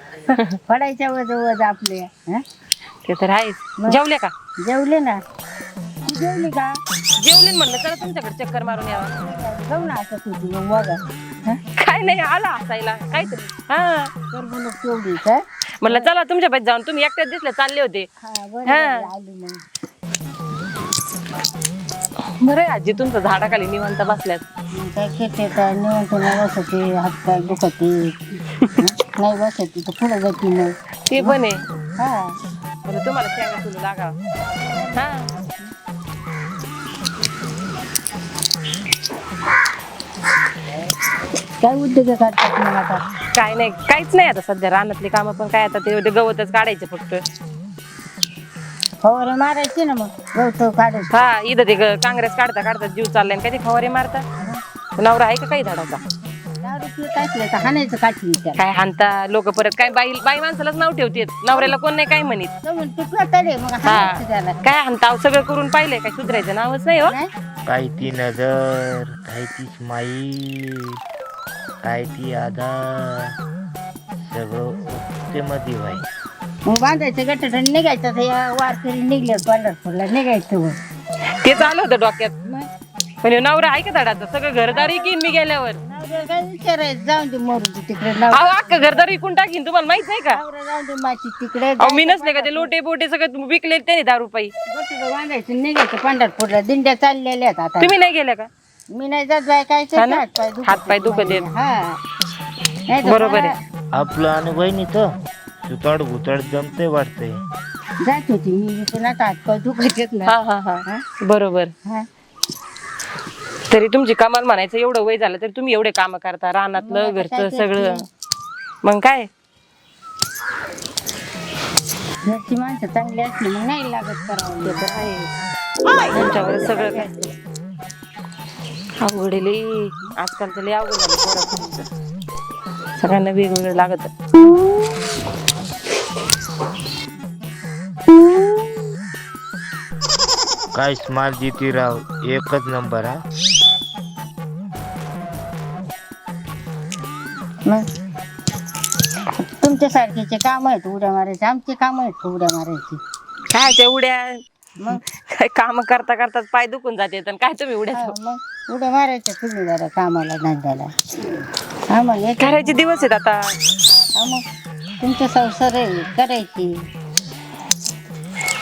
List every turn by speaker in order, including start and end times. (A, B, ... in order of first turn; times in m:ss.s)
0:00.3-0:00.6 A
0:00.7-0:02.4 B
0:03.0-0:04.3 A
0:04.6-0:05.2 B
0:06.1-0:06.8 B
0:07.2-0:09.1 A
0:09.0-0:11.6 B
0:11.8-0:14.1 A
0:14.3-0:16.1 B
0:15.8-0:18.1 A
0:18.2-0:19.6 B
0:18.7-0:19.1 A
0:22.4-0:24.4 A
0:24.7-0:28.1 B
0:28.8-0:31.4 B
0:31.1-0:31.6 A
0:32.0-0:32.4 B
0:32.8-0:34.2 A
0:34.7-0:35.1 B
0:34.9-0:35.3 A
0:41.6-0:43.0 B
0:43.4-0:47.2 A
0:49.0-0:51.2 B
0:51.1-0:54.2 A
0:55.0-0:56.0 A
0:56.6-0:58.6 B
0:58.6-1:02.5 A
1:02.6-1:04.6 B
1:03.8-1:07.2 A
1:07.7-1:11.0 C
1:11.8-1:13.3 C
1:14.2-1:16.1 C
1:16.7-1:20.8 B
1:21.4-1:22.7 A
1:23.2-1:25.8 A
1:24.7-1:25.2 B
1:25.8-1:29.1 B
1:28.3-1:30.4 A
1:30.3-1:32.7 B
1:31.8-1:34.5 A
1:34.7-1:38.0 B
1:37.8-1:38.5 A
1:38.9-1:42.0 B
1:40.0-1:41.4 A
1:42.9-1:43.6 B
1:43.0-1:43.5 A
1:43.9-1:45.1 C
1:45.7-1:47.4 C
1:48.0-1:50.3 B
1:50.2-1:51.7 A
1:53.7-1:58.0 A
1:56.8-1:58.0 B
1:58.8-1:59.3 A
2:02.2-2:05.0 B
2:04.6-2:05.3 A
2:06.1-2:07.3 B
2:06.1-2:07.1 A
2:09.0-2:11.9 A
2:13.0-2:14.1 A
2:20.7-2:23.2 C
2:29.6-2:33.0 B
2:33.5-2:38.2 A
2:37.9-2:40.9 B
2:41.9-2:43.0 B
2:42.4-2:43.6 A
2:44.2-2:44.4 B
2:45.0-2:46.7 B